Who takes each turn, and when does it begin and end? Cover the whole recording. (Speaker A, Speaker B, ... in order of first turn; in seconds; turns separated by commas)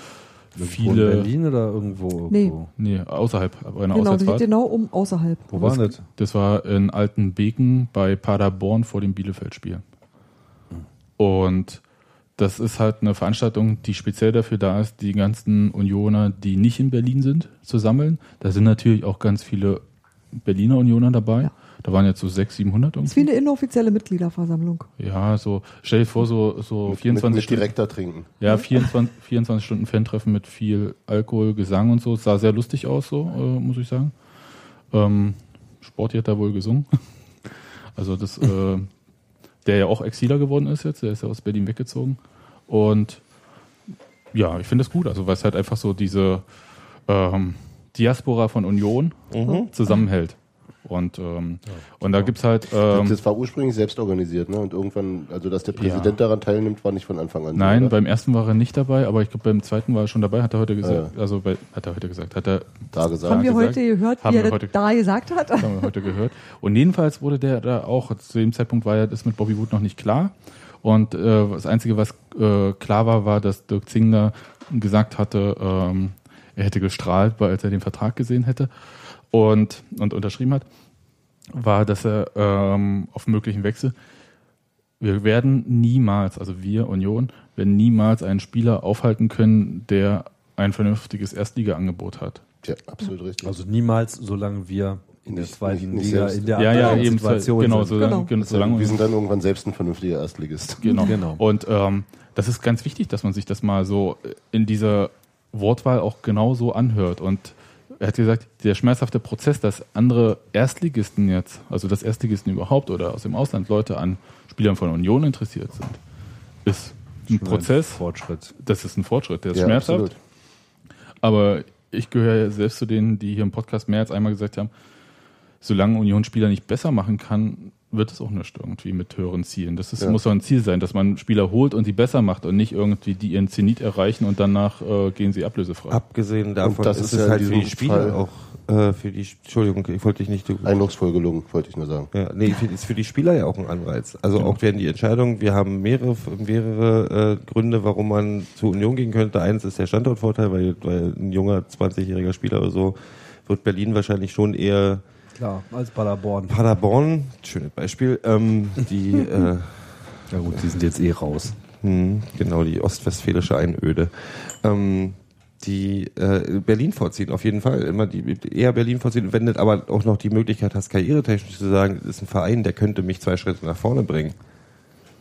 Speaker A: 0.5-1.3, Speaker B: 0.6-2.7, Speaker C: 2.3-2.5, Speaker A: 2.8-4.5, Speaker C: 3.9-5.7, Speaker B: 5.5-6.0, Speaker A: 5.6-9.8, Speaker A: 11.2-11.8, Speaker A: 12.4-19.8, Speaker A: 20.3-23.3, Speaker C: 23.0-24.9, Speaker A: 25.0-27.7, Speaker D: 26.9-28.3, Speaker A: 28.4-34.1, Speaker A: 34.9-36.9, Speaker A: 38.0-38.9, Speaker A: 39.6-43.2, Speaker A: 44.3-46.5, Speaker A: 47.1-53.2, Speaker E: 49.3-49.7, Speaker D: 52.8-57.9, Speaker A: 55.7-56.2, Speaker A: 57.5-64.7, Speaker D: 60.8-61.1, Speaker D: 62.9-63.5, Speaker C: 63.2-65.9, Speaker A: 65.6-78.7, Speaker A: 79.3-80.7, Speaker A: 81.5-83.9, Speaker A: 85.0-92.4, Speaker D: 92.6-93.6, Speaker B: 93.4-98.1, Speaker D: 95.2-97.1, Speaker A: 96.5-99.0, Speaker C: 98.0-98.3, Speaker D: 98.4-100.9, Speaker C: 100.8-101.1, Speaker A: 100.8-116.0, Speaker B: 101.0-101.4, Speaker A: 116.6-118.0, Speaker B: 117.3-118.5, Speaker A: 118.6-120.1, Speaker D: 119.5-120.1, Speaker A: 121.2-124.7, Speaker A: 125.6-136.0, Speaker E: 135.9-140.8, Speaker D: 136.6-138.2, Speaker D: 140.6-142.1, Speaker E: 142.1-155.0, Speaker B: 155.3-156.6, Speaker E: 156.5-159.8, Speaker B: 160.3-161.6, Speaker E: 161.8-174.3